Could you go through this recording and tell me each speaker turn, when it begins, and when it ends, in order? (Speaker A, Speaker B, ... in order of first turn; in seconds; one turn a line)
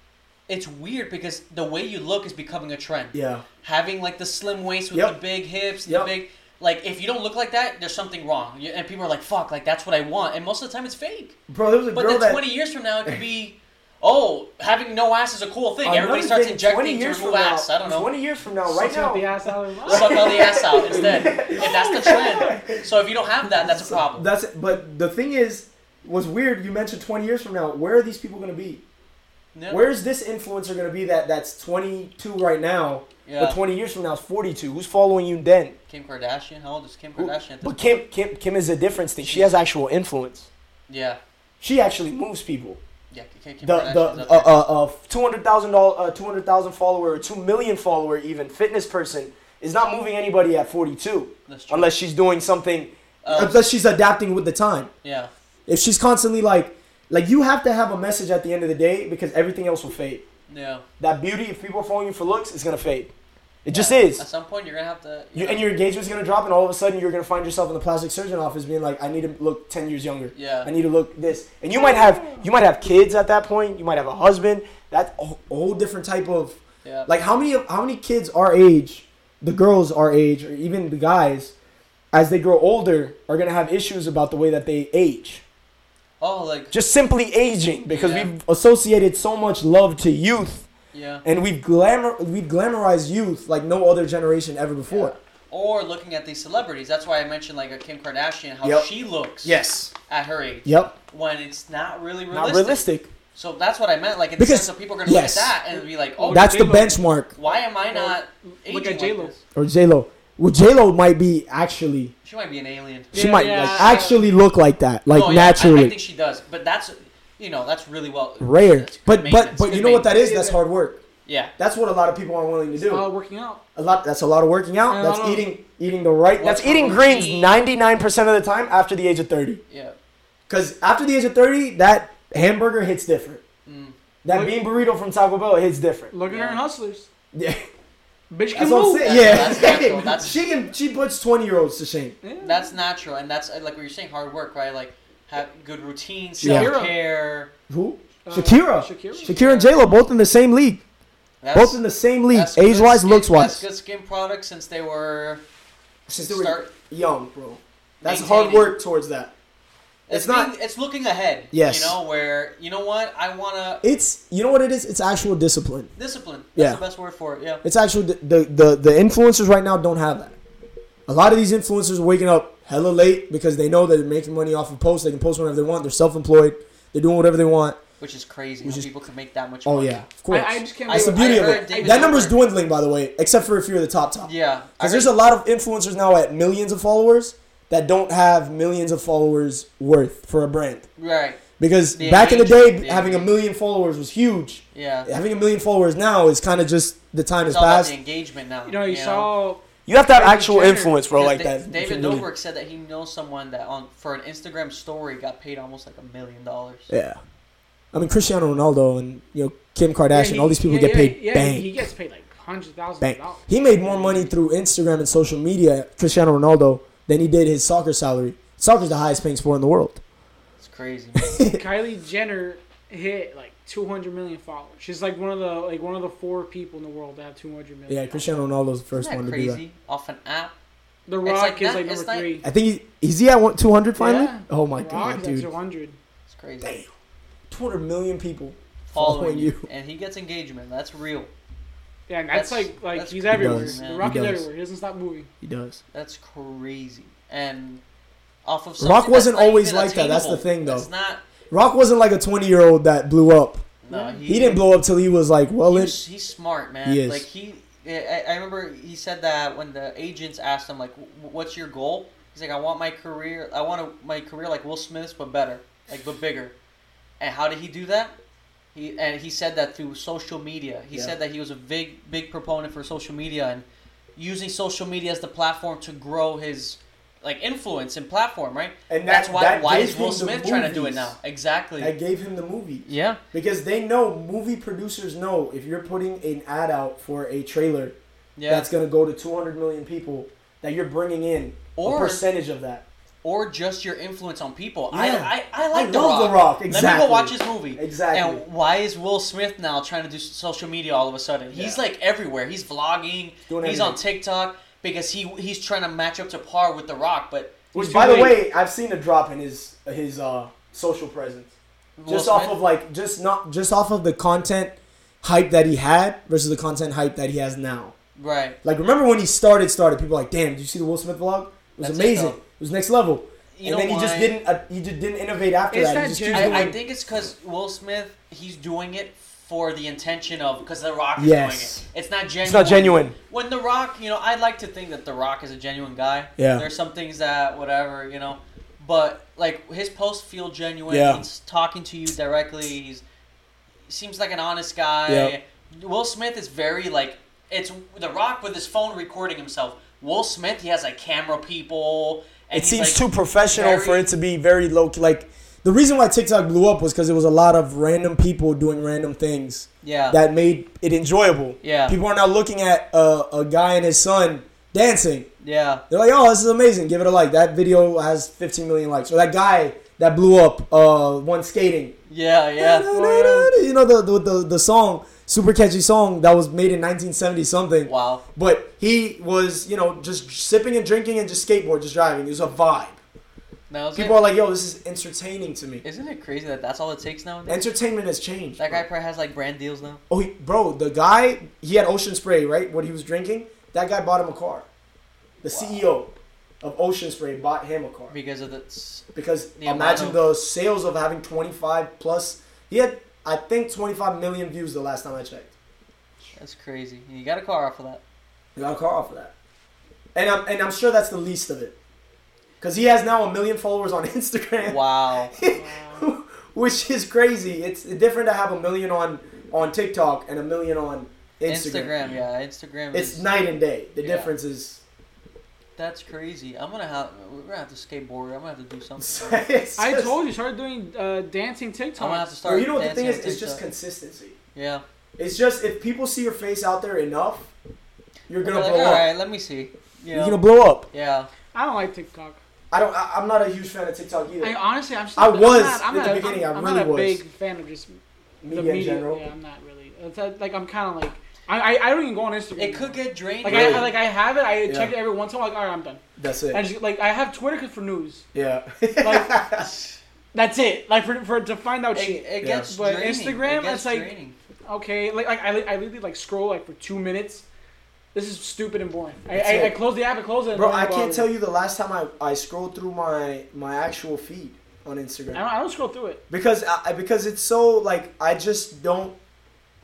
Speaker A: 0.5-11.4
Speaker B: 3.1-3.5
Speaker B: 11.5-12.4
Speaker A: 11.9-18.1
Speaker B: 15.8-22.9
Speaker C: 18.6-20.7
Speaker A: 19.8-24.3
Speaker B: 23.4-28.8
Speaker A: 29.5-29.9
Speaker B: 29.7-35.8
Speaker A: 33.2-33.6
Speaker A: 35.9-38.0
Speaker B: 37.2-40.5
Speaker A: 39.2-39.5
Speaker A: 40.9-41.2
Speaker B: 41.6-42.8
Speaker A: 43.1-44.5
Speaker B: 43.6-54.9
Speaker A: 51.5-51.9
Speaker A: 53.2-53.6
Speaker A: 55.0-55.3
Speaker B: 55.7-60.2
Speaker A: 60.5-60.8
Speaker B: 61.0-63.1
Speaker B: 63.6-64.2
Speaker A: 63.7-65.7
Speaker B: 65.3-81.5
Speaker A: 70.3-70.7
Speaker C: 71.8-72.4
Speaker A: 76.8-77.1
Speaker B: 82.1-85.4
Speaker A: 86.2-86.7
Speaker B: 86.7-90.7
Speaker A: 87.9-88.3
Speaker A: 90.9-91.2
Speaker B: 91.2-95.1
Speaker A: 94.9-106.5
Speaker B: 98.6-98.9
Speaker B: 99.4-99.9
Speaker B: 100.6-100.9
Speaker B: 102.3-103.1
Speaker B: 104.4-105.5
Speaker C: 105.7-109.3
Speaker B: 106.3-107.3
Speaker A: 107.3-109.4
Speaker B: 109.5-112.1
Speaker A: 112.2-114.0
Speaker C: 113.1-114.3
Speaker B: 113.1-115.9
Speaker A: 115.1-120.1
Speaker B: 118.4-121.0
Speaker C: 120.1-120.6
Speaker A: 121.2-121.5
Speaker B: 121.6-123.1
Speaker C: 122.8-123.6
Speaker B: 123.8-129.6
Speaker C: 124.9-125.5
Speaker A: 126.3-127.6
Speaker A: 129.7-130.0
Speaker B: 130.5-133.4
Speaker A: 133.7-133.9
Speaker B: 134.2-136.1
Speaker C: 134.3-134.6
Speaker C: 136.1-137.1
Speaker A: 136.3-136.6
Speaker B: 137.3-137.6
Speaker C: 138.3-139.5
Speaker B: 138.5-142.2
Speaker A: 139.0-140.4
Speaker C: 142.2-142.7
Speaker A: 142.4-147.5
Speaker B: 146.4-146.7
Speaker C: 146.4-146.9
Speaker B: 147.7-150.8
Speaker C: 148.2-149.3
Speaker A: 149.2-149.9
Speaker A: 151.4-155.4
Speaker B: 151.5-153.6
Speaker B: 156.1-159.3
Speaker A: 156.2-156.7
Speaker A: 158.0-158.7
Speaker A: 160.1-163.8
Speaker B: 160.1-160.5
Speaker B: 161.5-162.0
Speaker B: 163.8-165.9
Speaker A: 165.9-167.6
Speaker B: 166.5-166.8
Speaker B: 167.6-170.4
Speaker B: 171.1-177.8
Speaker A: 178.0-180.0
Speaker B: 178.6-178.9
Speaker B: 179.7-190.8
Speaker C: 180.3-182.1
Speaker A: 180.9-182.3
Speaker A: 184.2-185.1
Speaker A: 191.0-191.4
Speaker B: 191.6-197.9
Speaker A: 191.9-193.3
Speaker A: 194.7-195.1
Speaker A: 197.4-199.3
Speaker C: 198.7-201.0
Speaker B: 199.8-202.2
Speaker A: 201.1-206.9
Speaker B: 206.9-207.2
Speaker B: 207.9-211.7
Speaker C: 210.1-214.3
Speaker B: 213.0-220.0
Speaker A: 220.6-221.3
Speaker B: 221.2-221.6
Speaker C: 221.5-228.4
Speaker B: 227.9-229.6
Speaker A: 228.9-230.5
Speaker C: 231.1-232.4
Speaker A: 231.2-232.3
Speaker B: 232.4-235.5
Speaker C: 233.9-236.0
Speaker A: 236.3-236.8
Speaker B: 236.6-236.9
Speaker B: 237.5-239.7
Speaker A: 238.9-241.3
Speaker C: 242.1-245.3
Speaker A: 242.3-244.1
Speaker B: 243.3-244.4
Speaker B: 245.4-245.8
Speaker A: 245.9-247.8
Speaker A: 248.4-251.2
Speaker B: 248.8-250.9
Speaker B: 251.5-253.6
Speaker A: 253.8-254.6
Speaker C: 253.9-254.5
Speaker B: 254.3-256.0
Speaker A: 255.7-266.5
Speaker B: 256.8-257.2
Speaker A: 267.2-268.1
Speaker A: 268.7-273.6
Speaker A: 274.1-281.9
Speaker B: 278.9-281.1
Speaker B: 281.8-287.9
Speaker A: 282.9-283.2
Speaker A: 288.4-288.7
Speaker B: 288.5-292.8
Speaker A: 291.8-292.2
Speaker A: 293.2-308.2
Speaker B: 294.9-298.4
Speaker B: 301.5-301.8
Speaker B: 303.5-304.0
Speaker B: 307.7-311.5
Speaker C: 307.8-308.3
Speaker A: 312.0-312.6
Speaker B: 312.1-317.9
Speaker A: 318.2-318.6
Speaker B: 318.6-326.8
Speaker A: 321.8-322.4
Speaker A: 323.6-324.4
Speaker C: 325.7-326.7
Speaker A: 326.3-343.0
Speaker B: 331.2-331.8
Speaker B: 332.4-333.1
Speaker B: 336.4-336.6
Speaker B: 340.9-341.2
Speaker A: 343.9-354.1
Speaker B: 345.1-345.3
Speaker B: 352.5-365.3
Speaker A: 359.8-360.2
Speaker A: 361.6-362.0
Speaker A: 365.4-365.8
Speaker B: 365.9-371.9
Speaker A: 372.1-372.9
Speaker B: 372.6-383.0
Speaker C: 372.9-373.5
Speaker A: 377.8-378.2
Speaker A: 383.7-384.2
Speaker B: 383.9-385.8
Speaker A: 385.8-387.6
Speaker B: 387.5-388.8
Speaker A: 388.6-390.0
Speaker B: 390.1-394.6
Speaker B: 395.4-398.1
Speaker A: 395.5-395.8
Speaker A: 398.1-399.1
Speaker B: 399.1-405.5
Speaker A: 399.6-400.2
Speaker A: 406.4-408.0
Speaker B: 408.6-409.3
Speaker B: 410.1-411.7
Speaker B: 412.6-414.8
Speaker A: 414.6-415.3
Speaker B: 415.3-421.9
Speaker C: 415.4-416.1
Speaker A: 421.5-423.2
Speaker B: 422.9-424.8
Speaker A: 424.0-424.3
Speaker A: 425.8-429.4
Speaker B: 429.0-430.1
Speaker C: 429.8-432.3
Speaker A: 432.0-433.6
Speaker B: 432.4-434.4
Speaker A: 434.5-434.8
Speaker B: 435.2-437.5
Speaker B: 438.3-439.1
Speaker A: 438.4-441.3
Speaker B: 440.1-440.9
Speaker C: 441.5-442.4
Speaker B: 442.7-444.6
Speaker C: 444.4-448.0
Speaker B: 445.1-447.2
Speaker B: 448.4-449.2
Speaker C: 448.5-458.2
Speaker A: 452.5-453.9
Speaker B: 453.4-453.9
Speaker B: 454.6-454.9
Speaker B: 456.2-456.6
Speaker B: 458.3-459.7
Speaker C: 459.0-459.3
Speaker A: 459.6-460.0
Speaker C: 460.3-464.1
Speaker A: 461.9-464.4
Speaker B: 462.4-462.7
Speaker C: 464.7-467.4
Speaker C: 468.1-471.3
Speaker B: 469.3-469.8
Speaker B: 470.5-475.4
Speaker C: 475.3-476.2
Speaker B: 476.3-479.1